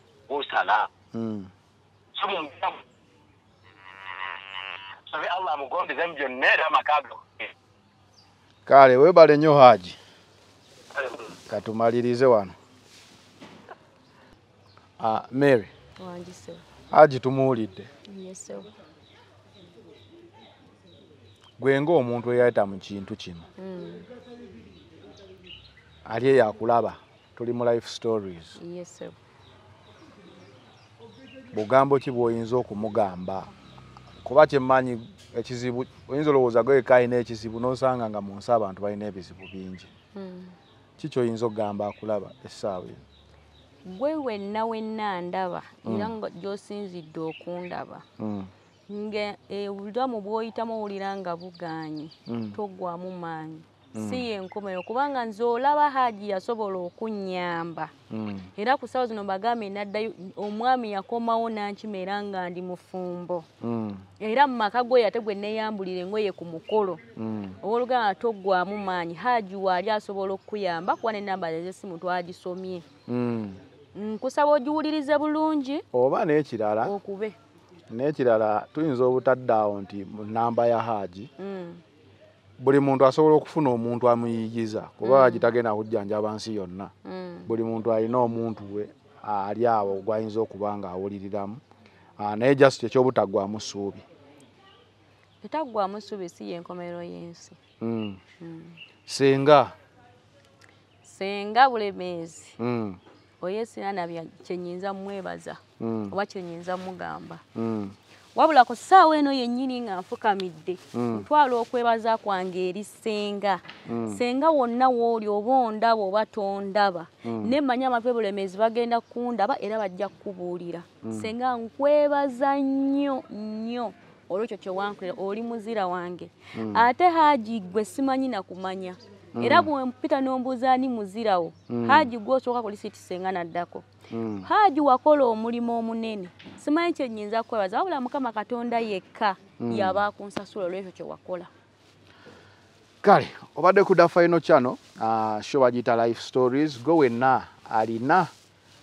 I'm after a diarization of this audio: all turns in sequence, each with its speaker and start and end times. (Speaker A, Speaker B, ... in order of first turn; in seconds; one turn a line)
Speaker A: 0.3-0.9
Speaker B: 1.1-1.5
Speaker A: 2.1-2.8
Speaker A: 5.1-7.5
Speaker B: 8.7-10.0
Speaker A: 10.9-11.3
Speaker B: 11.5-12.6
Speaker B: 15.0-15.7
Speaker C: 16.0-16.6
Speaker B: 16.9-17.9
Speaker C: 18.1-18.7
Speaker B: 21.6-23.5
Speaker C: 23.6-24.1
Speaker B: 26.1-28.6
Speaker C: 28.6-29.2
Speaker B: 31.5-33.5
Speaker B: 34.2-39.9
Speaker C: 40.1-40.5
Speaker B: 41.0-43.0
Speaker C: 43.9-48.0
Speaker B: 45.9-46.1
Speaker B: 48.2-48.5
Speaker C: 48.9-57.9
Speaker B: 52.3-52.6
Speaker B: 54.0-54.2
Speaker B: 58.1-58.5
Speaker C: 58.6-63.5
Speaker B: 63.6-64.0
Speaker C: 64.2-67.0
Speaker B: 67.2-67.6
Speaker C: 67.6-72.9
Speaker B: 73.1-73.6
Speaker C: 74.0-75.8
Speaker B: 75.9-76.9
Speaker C: 76.8-77.4
Speaker B: 77.9-81.3
Speaker C: 81.4-81.8
Speaker B: 82.6-86.9
Speaker C: 85.0-85.5
Speaker C: 87.0-87.5
Speaker B: 87.5-91.6
Speaker B: 92.2-94.0
Speaker C: 95.4-97.6
Speaker B: 97.8-98.2
Speaker C: 98.4-98.8
Speaker B: 99.1-99.8
Speaker C: 101.0-102.6
Speaker B: 102.6-103.0
Speaker C: 103.4-107.4
Speaker B: 105.8-106.2
Speaker B: 107.5-108.0
Speaker C: 108.3-133.9
Speaker B: 110.9-111.3
Speaker B: 113.9-114.2
Speaker B: 117.2-117.6
Speaker B: 121.0-121.3
Speaker B: 126.5-126.9
Speaker B: 129.3-129.7
Speaker B: 131.7-132.1
Speaker B: 134.1-134.5
Speaker C: 134.4-141.5
Speaker B: 139.6-140.0
Speaker B: 143.0-148.3